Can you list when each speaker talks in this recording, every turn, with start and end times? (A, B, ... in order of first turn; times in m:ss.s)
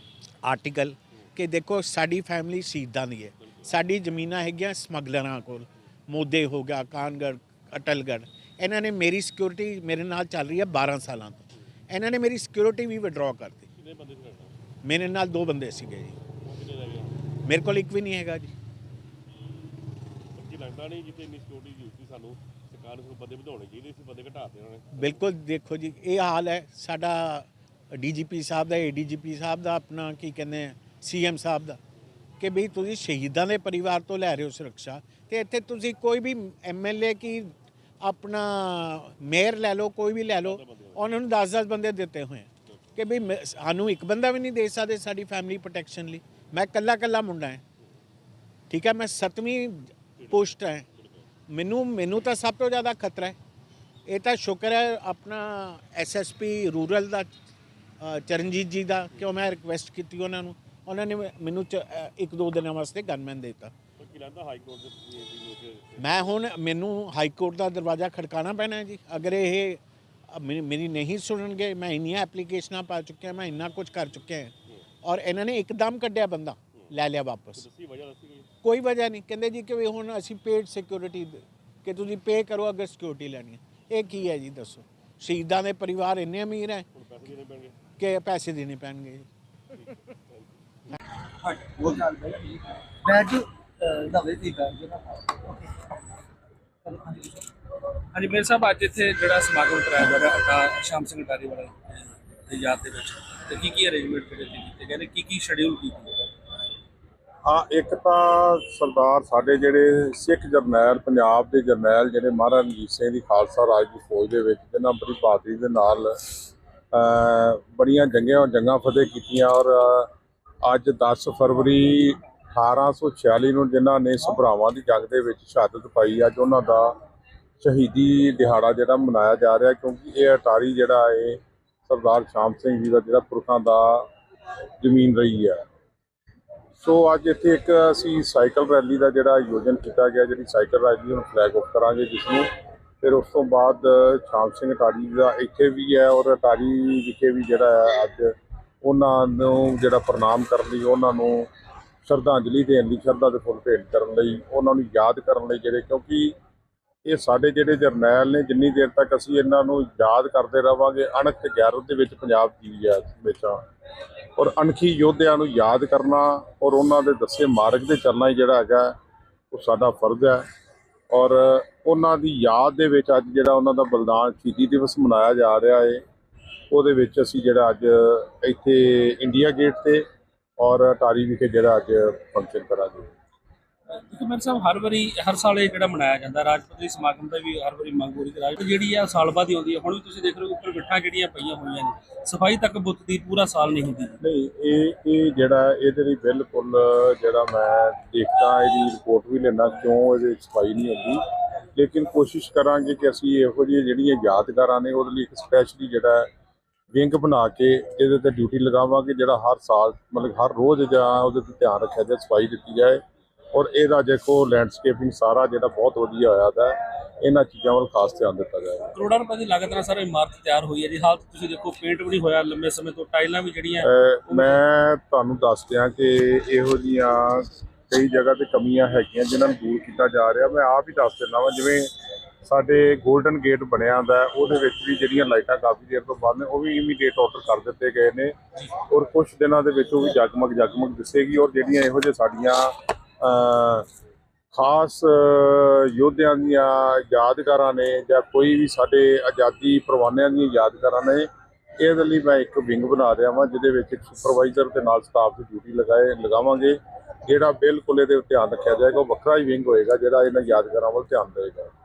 0:00.4-0:13.7 A
0:13.8-0:14.6 B
0:14.8-0:16.2 A
0:16.4-0:17.3 B
0:17.4-0:18.5 A
0:19.3-0:19.7 B
0:20.3-0:25.3 B
0:24.9-0:31.8 A
0:32.4-0:47.6 A
0:40.4-0:41.0 B
0:48.7-0:50.8 A
0:50.2-0:51.3 B
0:51.5-0:53.4 A
0:54.1-0:57.3 A
0:58.0-1:03.7 A
1:04.0-1:06.3 B
1:06.0-1:17.7 A
1:17.6-1:18.5 B
1:18.6-1:26.9 A
1:26.9-1:27.8 B
1:28.0-1:29.3 A
1:29.7-1:30.9 B
1:31.4-1:35.6 C
1:36.8-1:37.4 C
1:38.1-1:46.2 D
1:47.4-1:56.1 E
1:56.9-2:00.1 E
2:00.6-2:07.0 E
2:07.6-2:14.1 E
2:14.8-2:15.6 E
2:16.8-2:22.5 E
2:23.0-2:31.5 E
2:32.1-2:36.4 E
2:37.1-2:43.6 E
2:44.4-2:49.0 E
2:49.5-2:50.4 E
2:51.1-2:56.0 E
2:56.7-3:00.0 E
3:00.6-3:03.1 E
3:03.9-3:14.2 D
3:14.2-3:21.2 E
3:21.8-3:26.3 E
3:26.9-3:33.0 E
3:33.5-3:38.9 E
3:38.9-3:44.6 D
3:43.8-3:51.9 E
3:52.4-4:03.9 E
4:04.5-4:11.3 E
4:11.8-4:21.7 E